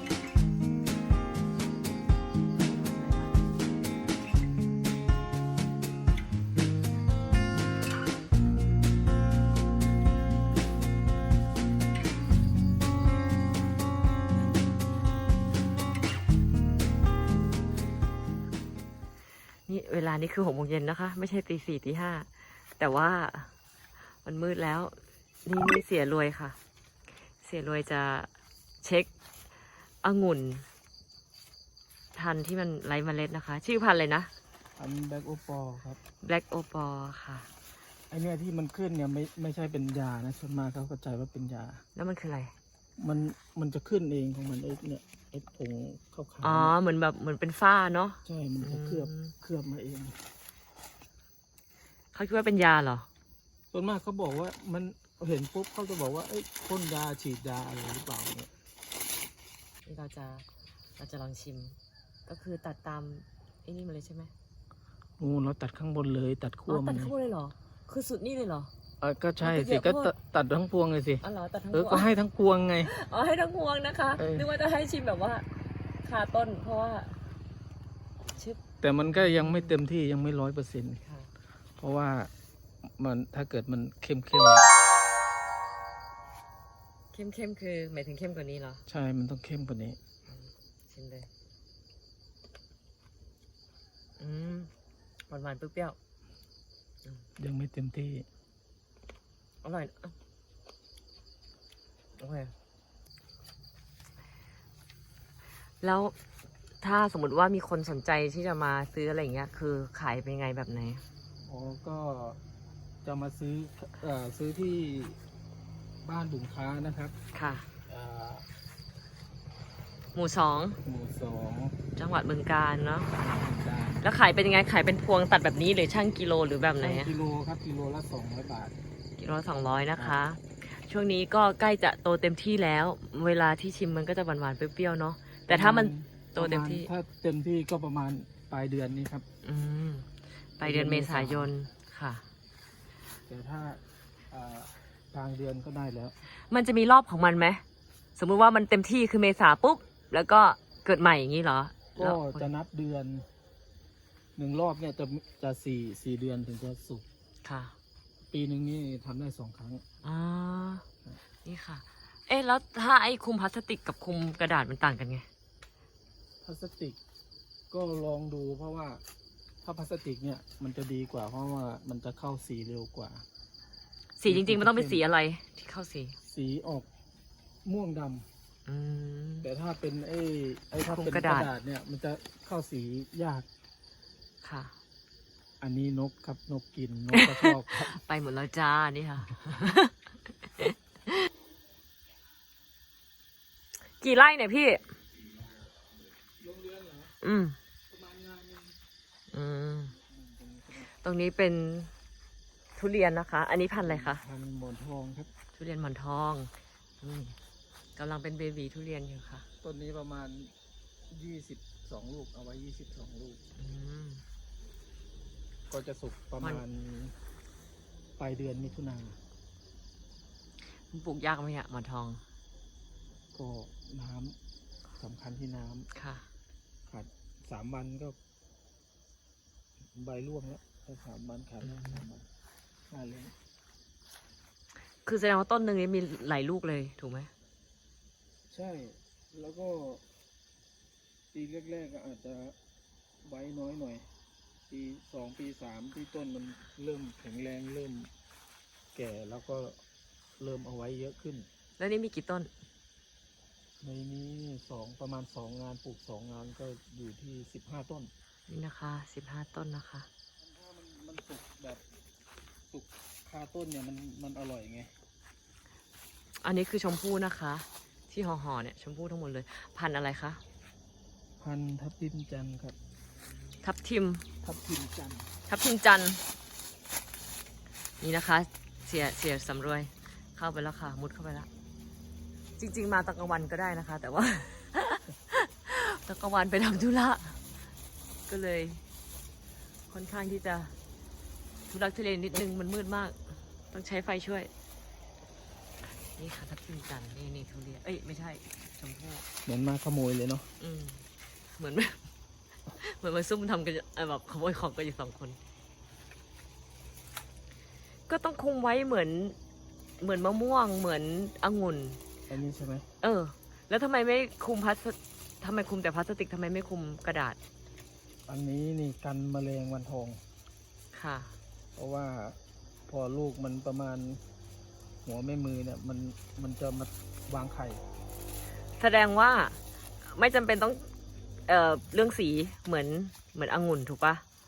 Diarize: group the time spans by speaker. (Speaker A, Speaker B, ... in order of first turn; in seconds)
Speaker A: 2.5-3.6, 19.7-23.5, 24.1-26.6, 27.4-28.3, 28.8-29.1, 30.0-30.7, 32.1-34.3, 36.2-37.5, 42.0-42.5, 46.4-49.3, 52.1-53.1, 59.9-60.5, 61.0-61.8, 62.3-64.3, 66.7-68.7, 69.4-70.1, 71.2-72.1, 72.8-75.5, 76.0-77.2, 78.4-79.8, 81.0-81.3, 87.1-88.8, 90.3-91.3, 94.2-94.7, 95.3-96.0, 99.6-100.2, 102.2-102.5, 105.8-106.2, 106.8-111.0, 117.3-117.7, 120.1-120.8, 122.0-123.1, 124.0-127.1, 129.2-136.9, 139.4-142.2, 146.5-147.6, 148.2-152.5, 157.4-157.8, 160.0-160.8, 161.4-165.3, 174.2-176.2, 178.7-179.5, 180.8-181.5, 184.4-184.7, 187.1-191.1, 193.9-195.0, 197.2-197.6, 199.3-199.9, 200.8-201.9, 202.8-204.2, 205.5-207.4, 207.9-209.4, 213.6-214.2, 220.9-222.2, 225.9-226.3, 231.6-232.0, 235.0-237.3, 251.8-252.5, 258.5-260.1, 266.4-270.4, 273.6-274.2, 275.4-276.2, 278.0-281.5, 282.6-287.4, 288.3-288.8, 289.9-290.8, 291.7-294.5, 296.1-299.2, 300.6-302.1, 302.7-305.4, 308.1-309.4, 310.0-312.0, 313.0-317.4, 320.9-321.3, 328.8-330.9, 331.5-334.2
Speaker B: 34.8-36.0, 38.1-41.8, 43.0-46.7, 48.2-50.2, 53.7-58.5, 65.2-67.1, 69.0-72.9, 74.2-74.5, 78.8-81.0, 81.8-82.3, 82.9-84.7, 88.9-90.0, 97.4-98.3, 111.4-112.4, 113.0-115.2, 116.0-117.1, 117.9-118.5, 120.8-121.8, 123.2-124.0, 126.8-128.8, 135.5-139.2, 140.6-141.5, 143.3-146.1, 151.9-153.2, 154.3-157.0, 158.3-159.8, 166.4-167.0, 167.7-169.0, 169.6-173.2, 174.3-175.0, 176.2-176.9, 177.6-178.3, 179.4-183.5, 185.6-188.0, 196.4-197.1, 197.9-198.8, 200.0-200.9, 203.8-205.3, 209.6-210.5, 211.1-213.4, 215.7-217.1, 218.2-219.2, 223.3-224.4, 225.0-225.9, 226.9-228.2, 229.9-232.3, 232.9-233.3, 238.5-240.0, 241.3-242.6, 243.2-244.1, 244.7-248.1, 248.9-249.8, 250.4-251.5, 253.8-258.1, 260.4-261.8, 262.7-264.9, 271.4-272.8, 274.4-275.3, 299.4-300.5, 312.3-312.9, 318.3-320.2, 321.8-324.2, 325.1-327.8